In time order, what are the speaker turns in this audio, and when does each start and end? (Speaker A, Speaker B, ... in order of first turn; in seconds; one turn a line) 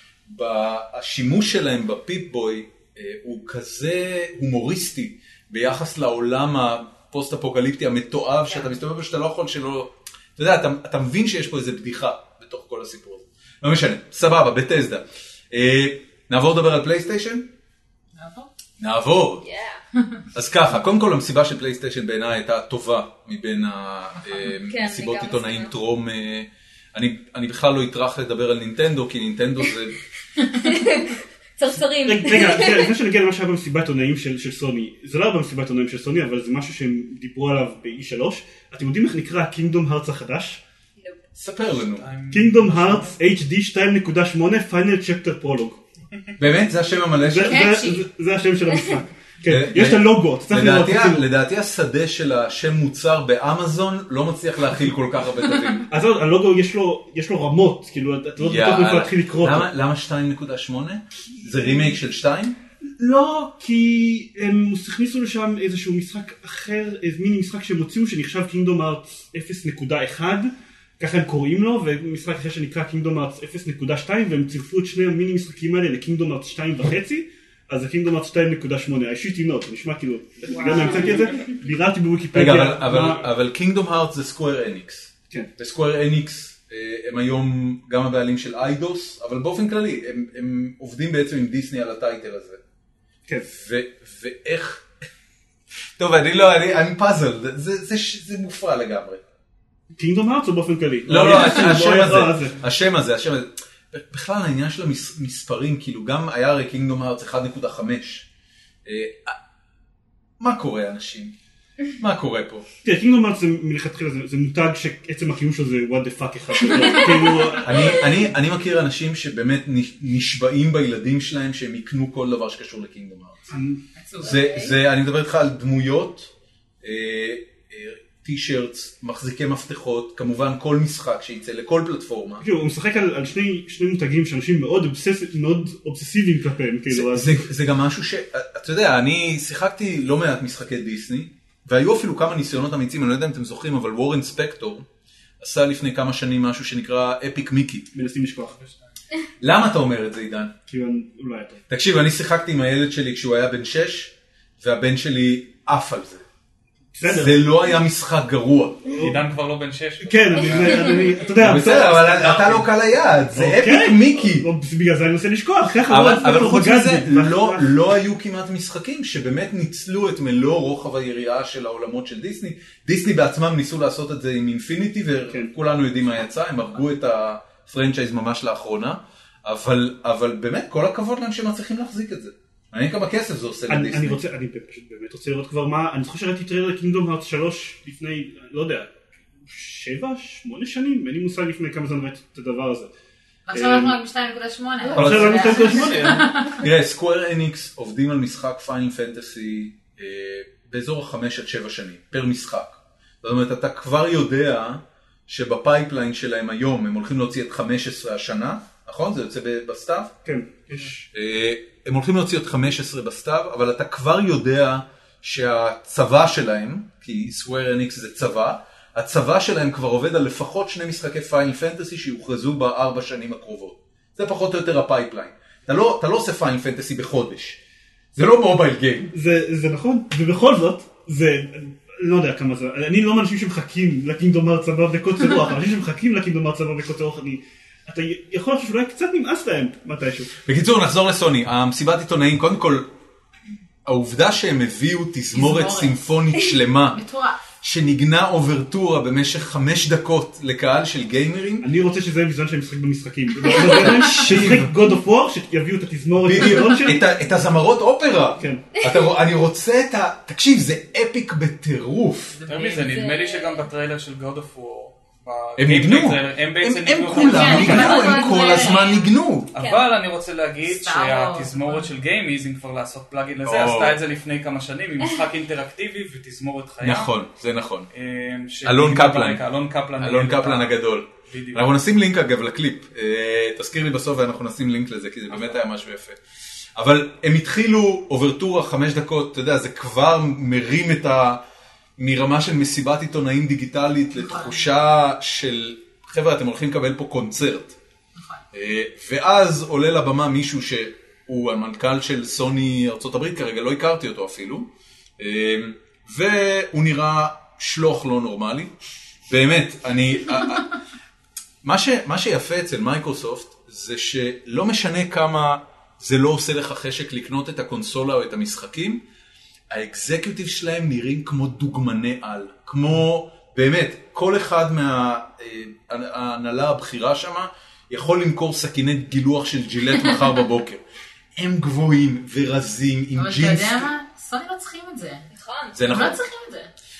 Speaker A: 0.2-17.5
Speaker B: 18.1-18.5
Speaker A: 18.8-19.4
Speaker C: 19.4-19.8
Speaker A: 20.3-30.0
Speaker C: 24.6-25.7
Speaker C: 30.4-32.9
Speaker D: 32.0-40.6
Speaker C: 41.0-41.2
Speaker A: 41.4-42.1
Speaker E: 41.8-43.2
Speaker D: 42.3-45.8
Speaker A: 46.4-47.7
Speaker D: 47.2-51.2
Speaker B: 47.4-48.0
Speaker C: 48.7-49.0
Speaker A: 49.5-55.8
Speaker D: 55.9-59.7
Speaker A: 58.4-62.6
Speaker D: 62.8-83.3
Speaker A: 82.3-92.6
Speaker A: 93.4-94.9
Speaker A: 96.0-99.2
Speaker D: 100.0-102.5
Speaker A: 101.1-108.2
Speaker A: 108.8-109.3
Speaker A: 110.4-111.3
Speaker A: 112.0-112.7
Speaker D: 112.8-117.9
Speaker A: 117.6-123.4
Speaker D: 123.5-123.8
Speaker B: 124.0-124.4
Speaker A: 124.2-126.3
Speaker C: 124.2-124.7
Speaker A: 126.8-132.4
Speaker D: 132.4-137.4
Speaker A: 136.9-144.9
Speaker A: 145.4-147.9
Speaker D: 147.9-148.6
Speaker E: 148.5-148.8
Speaker A: 149.4-150.5
Speaker D: 150.7-151.6
Speaker A: 151.7-156.2
Speaker D: 156.9-157.5
Speaker A: 157.0-159.0
Speaker D: 158.9-159.2
Speaker E: 159.0-162.6
Speaker D: 160.0-162.5
Speaker A: 161.4-164.5
Speaker D: 163.3-167.7
Speaker A: 165.9-184.2
Speaker D: 183.7-192.9
Speaker B: 193.5-196.6
Speaker D: 193.5-193.9
Speaker D: 194.9-196.3
Speaker A: 194.9-195.4
Speaker E: 195.6-196.1
Speaker A: 196.6-210.1
Speaker D: 210.2-211.0
Speaker A: 211.1-227.6
Speaker A: 228.1-229.1
Speaker D: 229.1-240.3
Speaker A: 240.4-242.9
Speaker A: 243.8-247.0
Speaker B: 245.3-246.1
Speaker B: 246.9-247.4
Speaker A: 247.6-251.7
Speaker D: 251.6-257.0
Speaker A: 253.7-254.7
Speaker A: 256.2-262.4
Speaker D: 258.4-258.6
Speaker B: 262.3-262.9
Speaker E: 262.5-268.2
Speaker C: 262.7-263.6
Speaker A: 265.6-269.5
Speaker B: 267.1-269.1
Speaker C: 267.4-268.9
Speaker C: 269.5-269.9
Speaker E: 269.5-277.1
Speaker B: 270.6-271.9
Speaker A: 273.4-274.0
Speaker A: 276.8-277.9
Speaker E: 277.9-281.7
Speaker A: 278.6-279.4
Speaker A: 280.0-286.2
Speaker A: 286.8-291.4
Speaker A: 292.0-297.8
Speaker B: 294.2-294.6
Speaker B: 298.1-298.4
Speaker A: 298.5-308.7
Speaker A: 309.3-310.7
Speaker A: 311.6-319.0
Speaker A: 319.7-330.8
Speaker A: 331.4-333.9
Speaker B: 333.1-335.3
Speaker C: 335.3-335.8
Speaker A: 335.7-336.2
Speaker B: 335.8-336.7